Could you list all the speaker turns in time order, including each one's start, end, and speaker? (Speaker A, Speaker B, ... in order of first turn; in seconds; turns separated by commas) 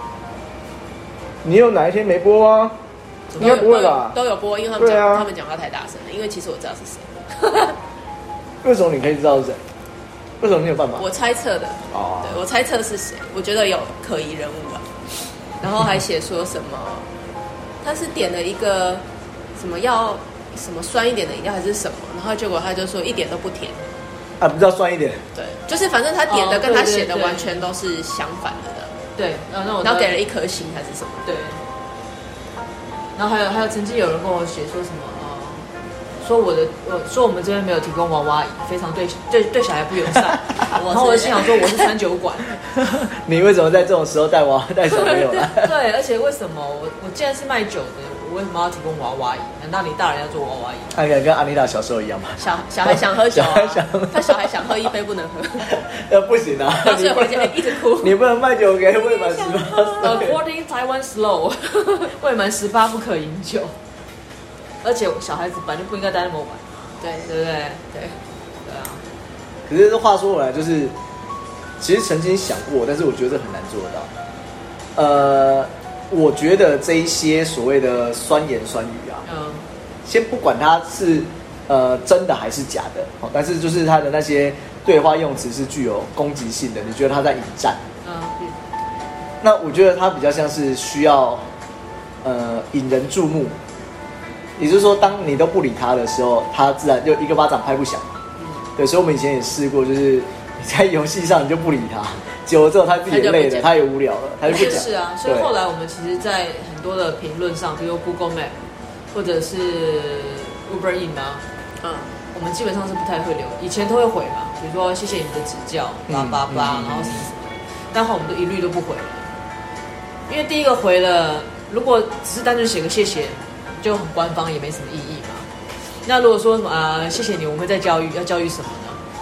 Speaker A: 1.4-2.8, Speaker B: 3.3-3.7, Speaker A: 3.4-4.2, Speaker C: 3.4-7.8, Speaker A: 4.8-5.3, Speaker A: 8.6-9.6, Speaker A: 10.4-11.1, Speaker C: 11.0-14.9, Speaker A: 11.9-12.4, Speaker C: 15.6-17.1, Speaker C: 17.8-19.0, Speaker C: 19.5-23.8, Speaker A: 24.4-25.2, Speaker C: 25.3-28.9, Speaker B: 26.3-27.6, Speaker B: 29.1-30.1, Speaker C: 29.8-31.3, Speaker B: 31.2-31.6, Speaker B: 33.1-35.7, Speaker B: 36.2-42.5, Speaker C: 40.7-41.5, Speaker A: 42.7-45.7, Speaker B: 45.6-51.0, Speaker A: 50.9-54.7, Speaker C: 52.4-55.7, Speaker A: 55.7-60.4, Speaker C: 56.8-58.2, Speaker C: 59.2-60.2, Speaker B: 60.0-63.7, Speaker B: 64.8-66.7, Speaker C: 67.0-67.3, Speaker B: 67.3-67.8, Speaker B: 68.6-69.0, Speaker A: 69.7-71.0, Speaker A: 71.8-74.1, Speaker A: 75.0-79.2, Speaker B: 79.2-79.7, Speaker A: 80.0-87.8, Speaker B: 88.0-88.3, Speaker A: 89.4-91.4, Speaker A: 92.2-93.5, Speaker A: 94.6-98.2, Speaker C: 98.4-98.6, Speaker A: 98.8-105.5, Speaker C: 103.1-103.8, Speaker B: 104.5-111.4, Speaker C: 104.5-104.8, Speaker C: 111.8-112.1, Speaker B: 112.3-119.3, Speaker A: 116.1-117.2, Speaker B: 120.3-125.5, Speaker B: 126.0-129.0